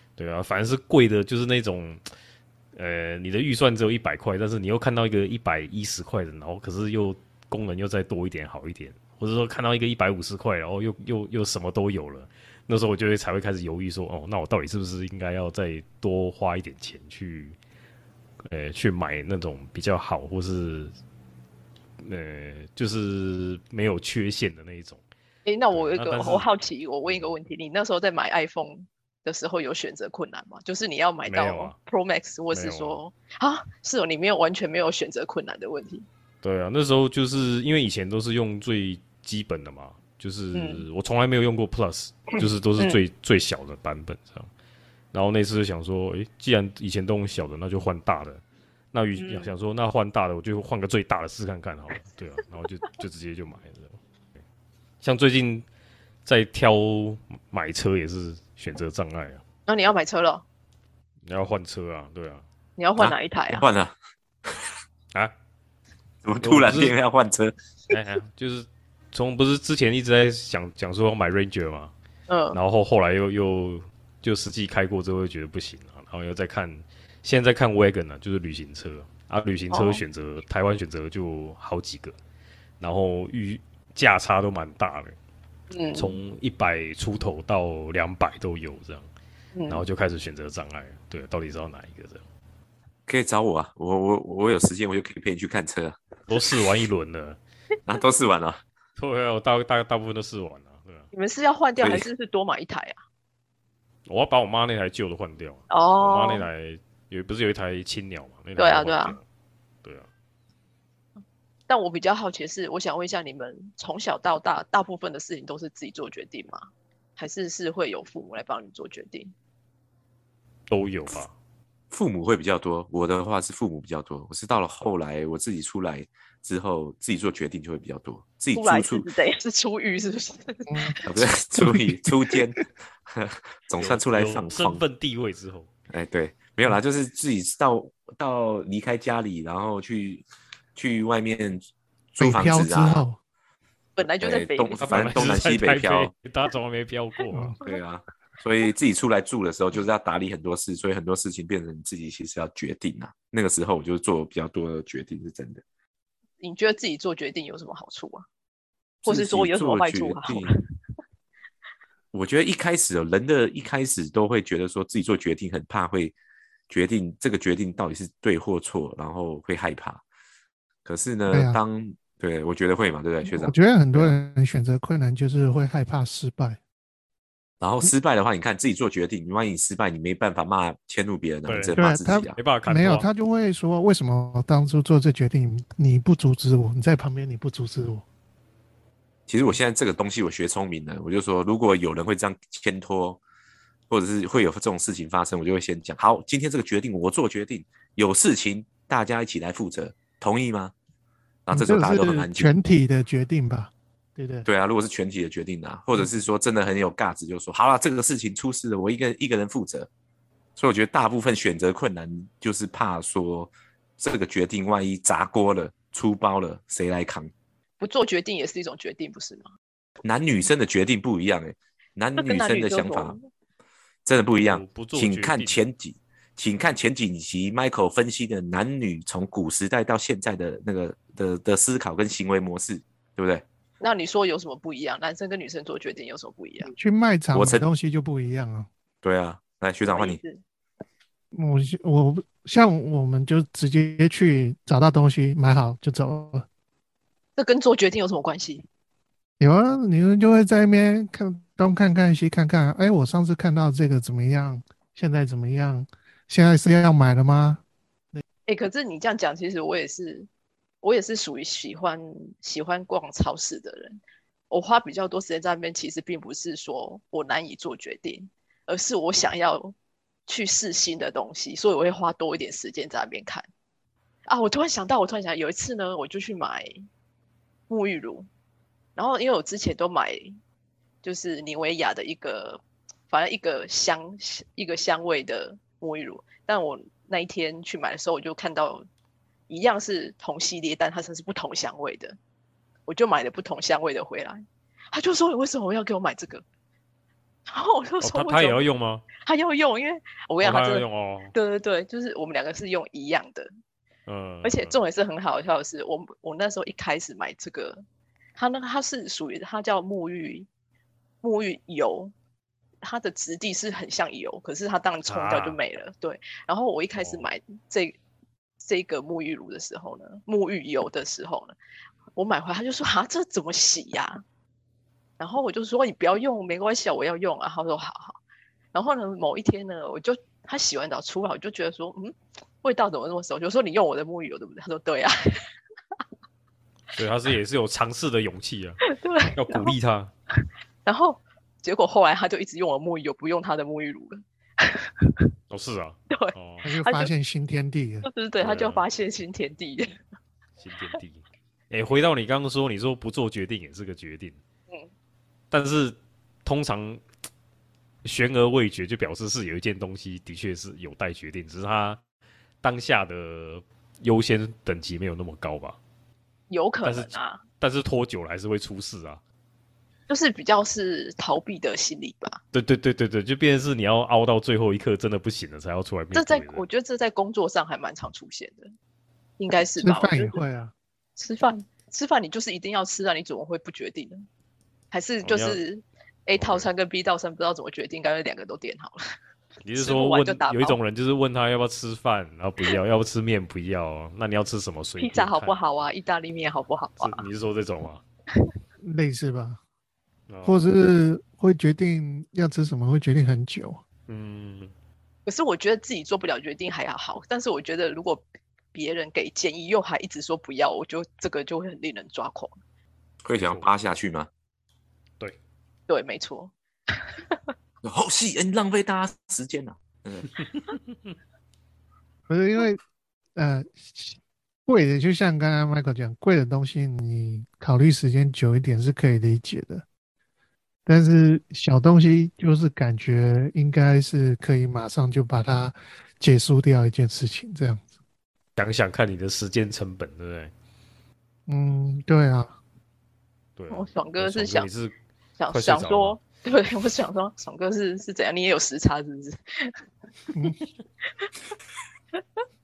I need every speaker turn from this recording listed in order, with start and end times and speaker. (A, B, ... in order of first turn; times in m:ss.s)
0:00.2-0:02.0 A
0:02.7-0:17.6 A
0:18.5-0:20.9 A
0:22.0-0:25.0 A
0:25.4-0:36.0 B
0:25.7-0:26.5 A
0:27.0-0:27.4 A
0:31.2-0:31.7 A
0:32.5-0:33.0 A
0:36.4-0:44.5 A
0:40.5-0:40.8 B
0:42.4-0:43.0 B
0:45.1-0:48.4 A
0:48.9-0:54.0 A
0:49.2-0:49.5 B
0:55.0-0:55.6 A
0:56.2-0:59.4 A
0:59.7-1:00.4 B
1:01.2-1:02.4 A
1:02.8-1:03.6 B
1:03.0-1:03.9 C
1:06.2-1:07.5 C
1:06.4-1:06.9 A
1:07.9-1:11.9 A
1:12.3-1:12.6 B
1:12.5-1:22.2 A
1:19.7-1:20.0 B
1:22.8-1:25.2 A
1:25.7-1:26.2 B
1:26.0-1:29.1 A
1:29.5-1:29.8 B
1:29.7-1:32.2 A
1:33.1-1:36.0 C
1:36.3-1:37.4 A
1:37.8-1:38.6 C
1:39.0-1:41.1 A
1:41.1-1:43.0 B
1:41.8-1:42.1 C
1:44.0-1:49.2 A
1:45.7-1:46.4 B
1:48.6-1:49.2 B
1:51.7-1:56.6 B
1:57.2-1:59.3 B
2:00.7-2:01.3 A
2:01.9-2:09.1 C
2:08.5-2:11.0 B
2:10.7-2:11.0 D
2:11.0-2:14.8 C
2:11.6-2:12.0 D
2:13.8-2:15.7 A
2:15.9-2:21.6 C
2:22.1-2:23.0 C
2:22.2-2:23.2 D
2:24.0-2:25.2 B
2:24.2-2:26.1 C
2:24.8-2:27.5 A
2:27.3-2:27.6 D
2:27.6-2:35.6 C
2:36.4-2:38.2 B
2:39.0-2:40.6 B
2:39.0-2:40.5 C
2:42.1-2:46.2 C
2:46.7-2:50.0 C
2:50.8-2:54.1 C
2:51.3-2:51.6 D
2:53.2-2:56.6 D
2:57.6-3:02.4 C
3:01.5-3:01.8 A
3:01.7-3:08.0 D
3:02.3-3:03.1 A
3:09.3-3:13.2 C
3:13.9-3:20.7 C
3:21.4-3:22.5 C
3:21.5-3:24.5 D
3:24.4-3:29.9 C
3:30.6-3:37.3 C
3:37.8-3:39.4 B
3:40.0-3:43.2 C
3:42.2-3:43.2 B
3:44.0-3:53.4 C
3:44.3-3:45.6 A
3:53.8-3:56.7 B
3:56.6-3:58.7 D
3:57.3-3:57.6 C
3:59.0-4:00.2 C
3:59.8-4:00.4 B
4:01.3-4:06.4 D
4:07.4-4:08.6 B
4:09.4-4:17.6 D
4:18.5-4:20.3 B
4:20.8-4:29.7 B
4:30.3-4:33.5 B
4:34.3-4:36.8 B
4:37.7-4:38.3 B
4:39.0-4:40.4 B
4:41.0-4:48.8 B
4:49.5-4:52.2 B
4:52.9-4:56.4 B
4:57.5-4:58.6 B
4:58.0-4:59.1 A
4:59.2-5:03.5 B
5:00.4-5:01.3 A
5:04.0-5:04.8 A
5:04.4-5:07.8 B
5:08.4-5:10.5 B
5:11.2-5:12.1 B
5:12.8-5:18.0 B
5:15.0-5:15.6 A
5:17.0-5:17.2 A
5:18.6-5:21.6 B
5:22.2-5:24.2 B
5:25.2-5:28.2 B
5:28.7-5:35.4 B
5:37.0-5:40.1 A
5:38.9-5:39.7 B
5:40.8-5:45.3 B
5:45.5-5:46.7 A
5:46.1-5:47.1 B
5:46.6-5:48.1 D
5:48.0-5:50.0 B
5:48.4-5:48.8 A
5:50.6-5:54.4 A
5:55.5-5:57.0 A
5:58.0-6:02.0 A
6:02.6-6:05.8 A
6:06.5-6:07.4 B
6:06.8-6:09.2 A
6:10.1-6:12.4 B
6:12.5-6:16.6 A
6:16.1-6:18.7 B
6:19.4-6:20.4 B
6:19.8-6:20.7 D
6:21.2-6:24.2 B
6:24.9-6:29.0 B
6:25.2-6:25.6 A
6:26.3-6:26.7 A
6:29.6-6:35.6 A
6:29.8-6:30.8 B
6:35.0-6:37.2 B
6:37.0-6:38.0 A
6:38.8-6:39.6 D
6:40.3-6:40.6 A
6:40.4-6:43.8 D
6:44.1-6:44.7 A
6:45.2-6:52.5 B
6:53.2-6:54.3 C
6:53.4-6:53.7 A
6:55.9-6:57.5 B
6:57.8-7:00.3 C
7:02.3-7:02.8 D
7:03.4-7:09.8 D
7:10.8-7:17.8 D
7:18.6-7:20.5 A
7:21.5-7:22.5 D
7:23.6-7:24.9 A
7:23.7-7:24.7 B
7:25.4-7:29.8 B
7:25.5-7:26.2 A